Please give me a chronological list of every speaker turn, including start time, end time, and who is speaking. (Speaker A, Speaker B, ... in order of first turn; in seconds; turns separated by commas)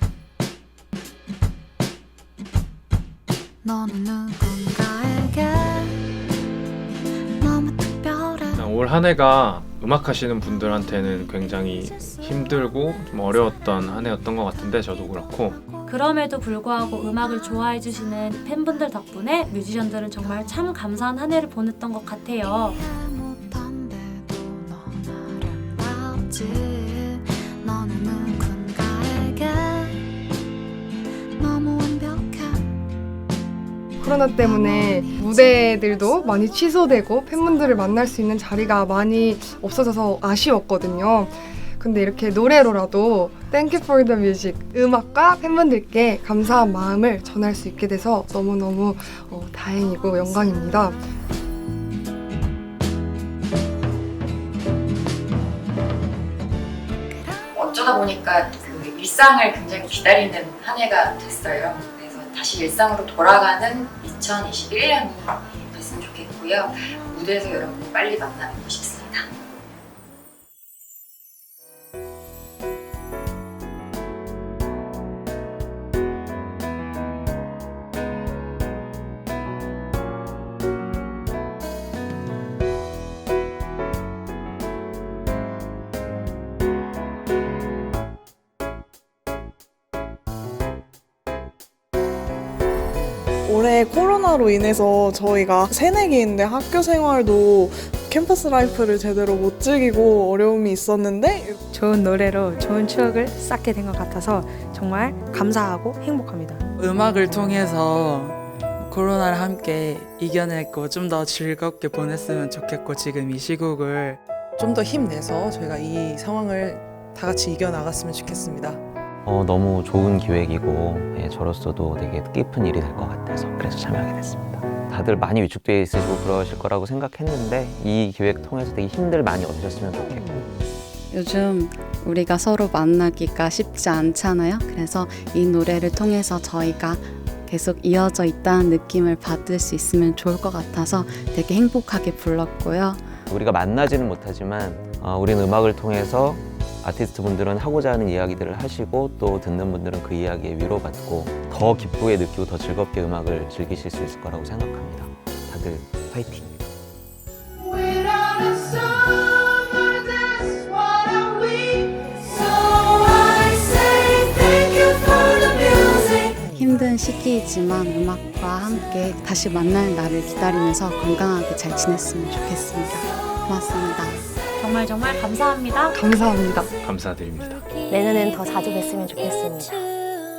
Speaker A: 3.6-5.8, Speaker A: 7.4-8.4, Speaker B: 8.5-15.6, Speaker C: 15.8-22.8, Speaker A: 23.1-29.9, Speaker A: 31.4-32.6, Speaker D: 34.0-51.0, Speaker A: 34.4-35.6, Speaker E: 57.5-69.2, Speaker F: 93.5-95.8, Speaker F: 96.3-97.0, Speaker F: 98.7-99.0, Speaker F: 99.6-101.5, Speaker G: 101.7-106.6, Speaker H: 106.9-108.3, Speaker H: 108.9-114.2, Speaker I: 114.6-118.8, Speaker J: 119.2-130.4, Speaker K: 131.1-143.2, Speaker J: 143.3-156.6, Speaker K: 166.5-174.2, Speaker C: 174.6-175.9, Speaker D: 175.9-176.7, Speaker B: 176.8-177.6, Speaker L: 177.9-179.9